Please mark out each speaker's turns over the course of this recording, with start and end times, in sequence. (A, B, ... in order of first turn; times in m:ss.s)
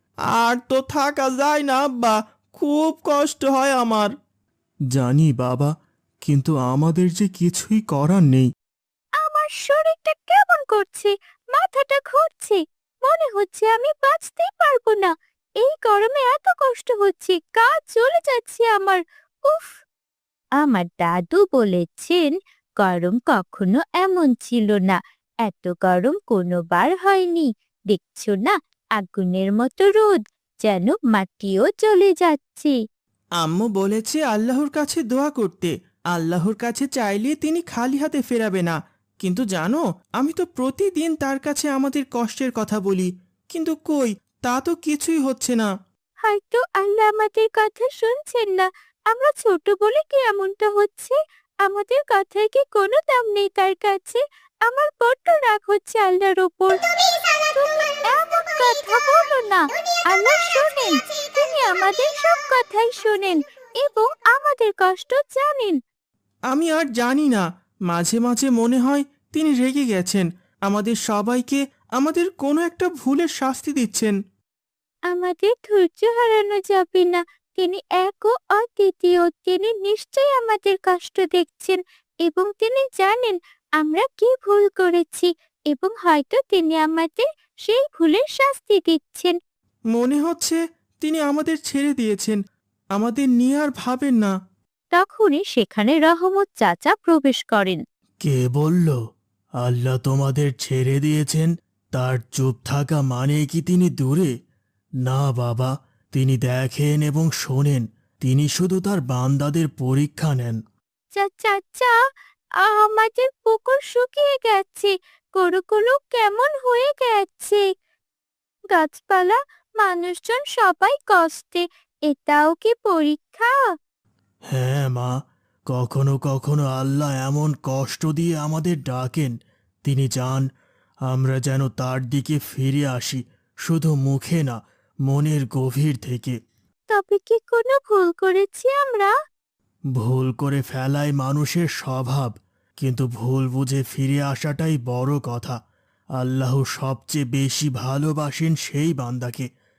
0:00.4-0:04.1 A
0:04.9-0:05.7 B
0:06.2-0:08.5 B
0:09.2-0:15.1 C
0:15.6-0:19.8 C
0:20.6-0:32.7 C
0:33.4-0:45.7 A
0:46.2-0:56.8 C
0:57.5-1:05.8 C
1:06.5-1:14.1 A
1:15.1-1:29.4 C
1:29.9-1:32.4 A
1:33.0-1:34.3 A
1:34.9-1:37.8 C
1:38.2-1:39.0 B
1:39.6-1:44.3 B
1:45.0-1:50.6 B
1:51.1-1:51.9 C
1:52.6-1:57.6 C
1:58.7-2:03.5 C
2:04.5-2:05.1 B
2:05.7-2:09.3 B
2:09.8-2:10.4 B
2:11.1-2:14.6 B
2:15.1-2:16.3 B
2:17.0-2:19.1 C
2:20.0-2:25.5 B
2:26.2-2:29.4 B